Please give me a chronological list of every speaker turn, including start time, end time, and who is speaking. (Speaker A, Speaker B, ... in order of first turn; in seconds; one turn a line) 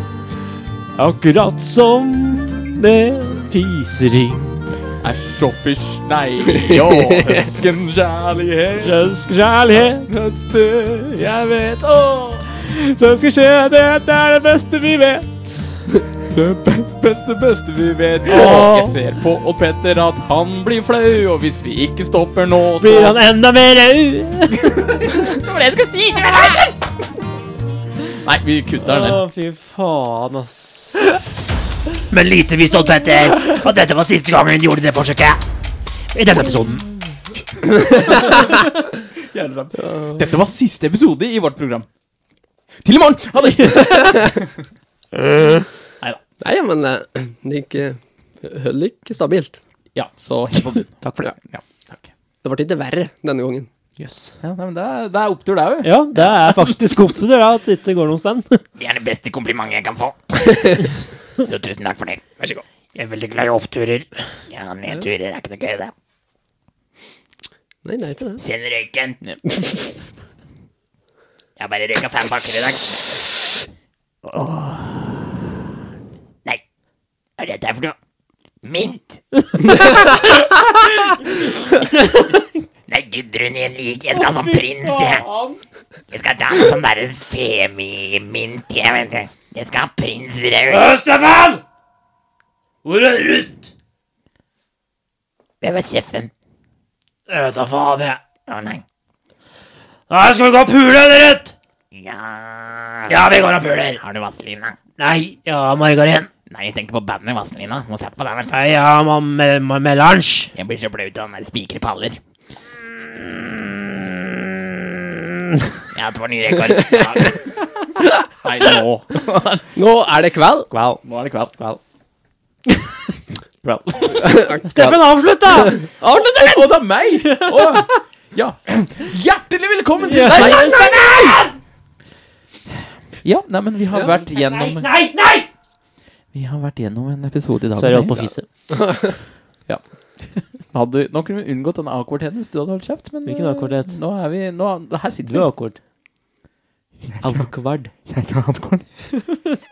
Speaker A: 1.0-4.7
Speaker B: 5.0-9.0
Speaker C: 6.7-7.4
Speaker A: 8.8-10.1
Speaker B: 9.8-12.5
Speaker A: 12.6-15.8
Speaker B: 16.2-23.2
Speaker A: 18.3-19.0
Speaker A: 22.8-25.0
Speaker B: 24.9-26.7
Speaker B: 28.1-29.2
Speaker A: 28.8-31.1
Speaker A: 32.1-35.4
Speaker A: 36.1-37.0
Speaker B: 37.7-41.9
Speaker C: 39.9-40.2
Speaker B: 42.8-44.6
Speaker C: 46.4-49.6
Speaker B: 50.0-52.1
Speaker A: 51.0-51.3
Speaker C: 52.4-53.7
Speaker A: 54.0-54.4
Speaker B: 54.4-56.7
Speaker A: 55.8-58.6
Speaker D: 58.8-62.3
Speaker A: 63.0-64.2
Speaker D: 64.5-65.9
Speaker C: 67.8-68.4
Speaker D: 68.4-69.2
Speaker C: 69.5-69.8
Speaker D: 71.6-73.3
Speaker D: 74.3-75.2
Speaker D: 77.4-78.0
Speaker D: 78.6-82.3
Speaker D: 82.9-85.2
Speaker A: 84.1-85.6
Speaker D: 86.1-90.8
Speaker A: 90.7-91.6
Speaker A: 92.8-93.7
Speaker D: 95.6-96.3
Speaker A: 97.3-98.2
Speaker D: 98.5-98.8
Speaker A: 100.1-101.5
Speaker D: 101.9-103.1
Speaker A: 103.1-104.0
Speaker D: 104.0-104.8
Speaker A: 105.0-106.3
Speaker D: 106.5-108.6
Speaker A: 108.5-110.5
Speaker D: 110.5-112.2
Speaker A: 113.1-115.7
Speaker D: 115.9-117.4
Speaker B: 117.0-119.7
Speaker C: 119.7-120.7
Speaker A: 120.7-121.0
Speaker B: 121.0-121.8
Speaker B: 123.6-124.5
Speaker C: 124.2-125.0
Speaker A: 124.6-126.2
Speaker C: 125.7-126.6
Speaker B: 126.0-131.4
Speaker A: 127.2-128.0
Speaker A: 130.1-131.6
Speaker B: 133.2-134.9
Speaker A: 134.0-135.5
Speaker B: 136.3-138.3
Speaker A: 137.8-138.5
Speaker C: 138.7-139.1
Speaker B: 139.7-145.5
Speaker A: 143.2-144.0
Speaker A: 145.2-145.8
Speaker B: 147.1-147.5
Speaker A: 147.2-147.9
Speaker B: 148.1-148.9